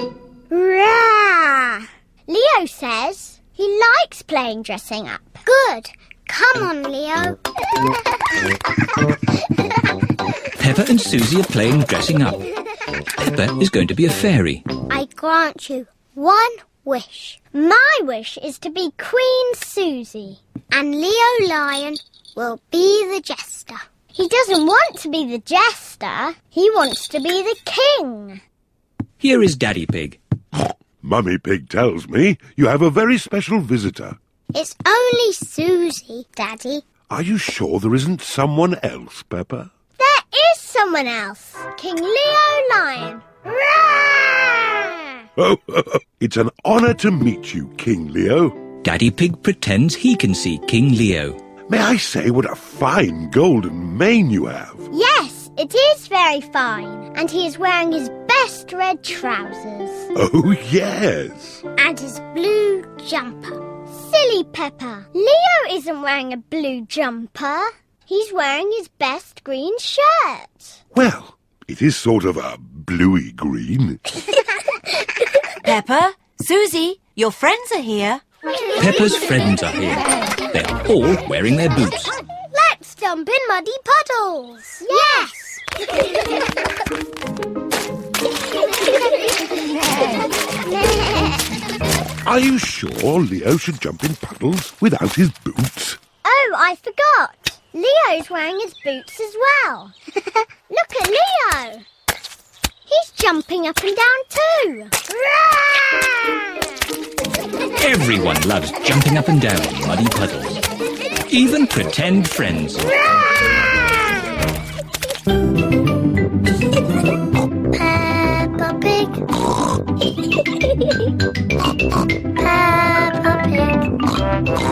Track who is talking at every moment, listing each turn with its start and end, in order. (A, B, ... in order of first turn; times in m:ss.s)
0:00.5-0:07.8 A
0:10.6-0:12.5 B
0:13.2-0:14.6 B
0:14.9-0:28.4 A
0:29.2-0:30.2 B
0:31.0-0:34.2 C
0:34.5-0:36.8 A
0:37.1-0:39.7 C
0:40.0-0:45.1 A
0:45.4-0:48.6 C
0:48.8-0:51.4 B
0:51.7-0:54.9 C
0:54.9-1:00.1 A
1:00.1-1:01.6 C
1:01.8-1:10.8 A
1:10.9-1:14.0 C
1:15.6-1:18.2 D
1:18.7-1:22.1 B
1:22.4-1:25.6 A
1:30.6-1:31.5 A
1:32.2-1:36.0 C
1:36.2-1:41.8 A
1:42.9-1:46.5 A
1:47.8-1:50.6 B
1:51.3-1:52.8 B
1:52.9-1:54.4 A
1:57.7-1:59.3 A
2:02.4-2:03.9 A